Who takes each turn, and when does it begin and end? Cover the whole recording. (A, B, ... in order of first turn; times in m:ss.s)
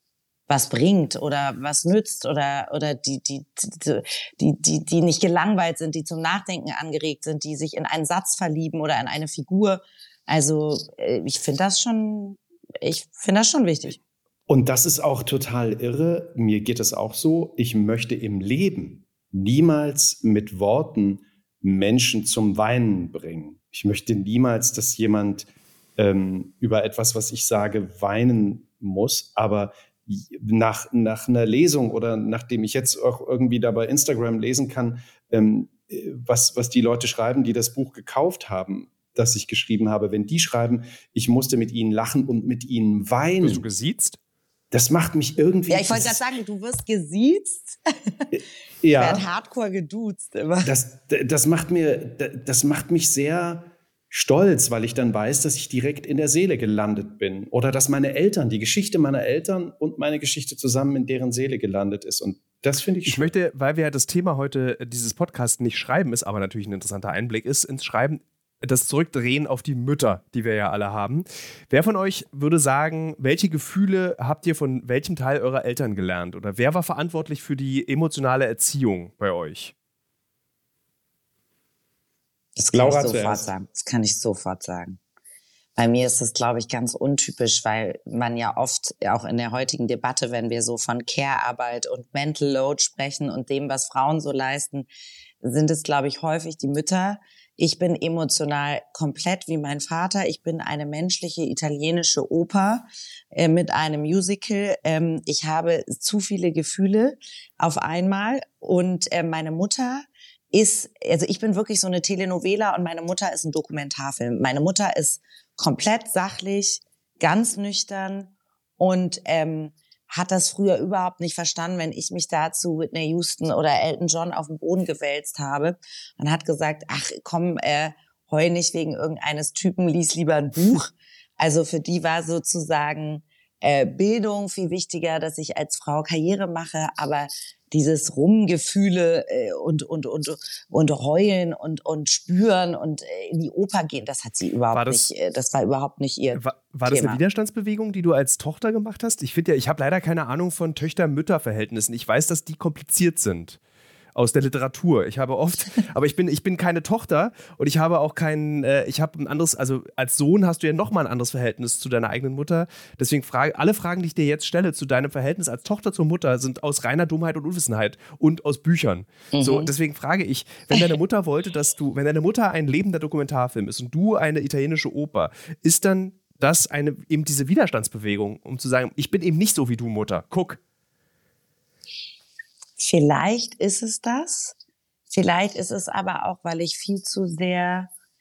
0:00.5-0:14.0 A
0:14.5-0:43.7 B
0:43.4-0:44.2 C
0:44.7-0:46.2 B
0:45.7-0:48.3 A
0:48.3-0:49.2 B
0:49.0-0:50.7 A
0:50.6-1:03.3 B
1:03.0-1:19.7 C
1:22.6-1:25.0 A
1:22.7-1:23.5 B
1:25.8-1:34.9 A
1:35.4-2:27.2 A
2:24.7-2:25.1 C
2:26.3-2:33.6 C
2:34.1-3:00.6 C
2:49.3-2:49.7 A
3:02.8-3:04.6 A
3:05.1-3:07.9 A